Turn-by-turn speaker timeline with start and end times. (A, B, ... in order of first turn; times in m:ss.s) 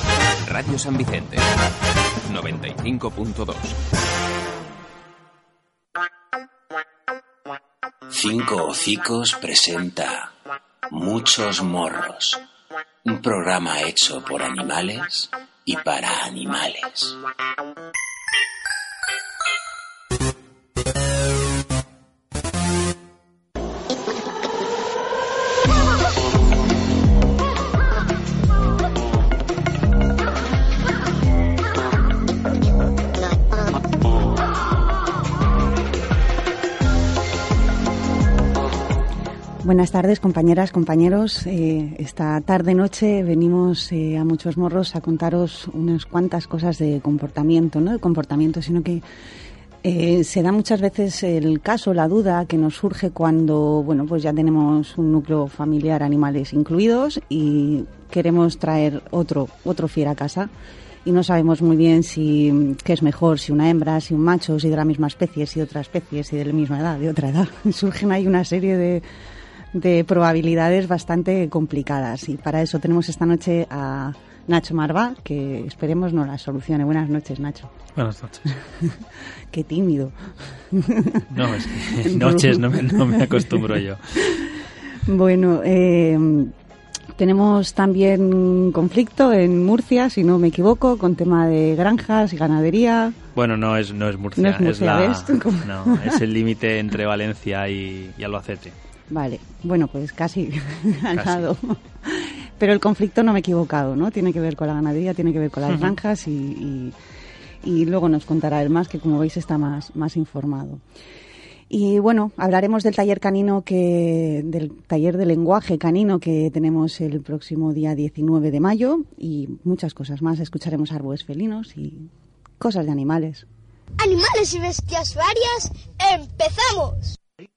0:00.4-0:01.4 A
0:02.2-0:03.8 A
0:08.1-0:10.3 B
0:10.9-0:12.4 B
0:13.0-0:17.2 B
0:39.6-0:49.0 C
0:49.8-1:00.5 C
1:01.0-1:09.0 C
1:09.7-1:17.7 C
1:17.9-1:18.5 D
1:18.6-1:23.7 C
1:21.3-1:24.3 D
1:24.2-1:24.5 C
1:25.0-1:26.5 C
1:27.2-1:33.2 C
1:33.3-1:38.8 D
1:34.4-1:36.2 C
1:39.1-1:46.9 C
1:41.1-1:41.5 D
1:45.7-1:45.9 D
1:47.6-1:50.8 C
1:51.7-2:03.4 C
2:04.0-2:07.1 E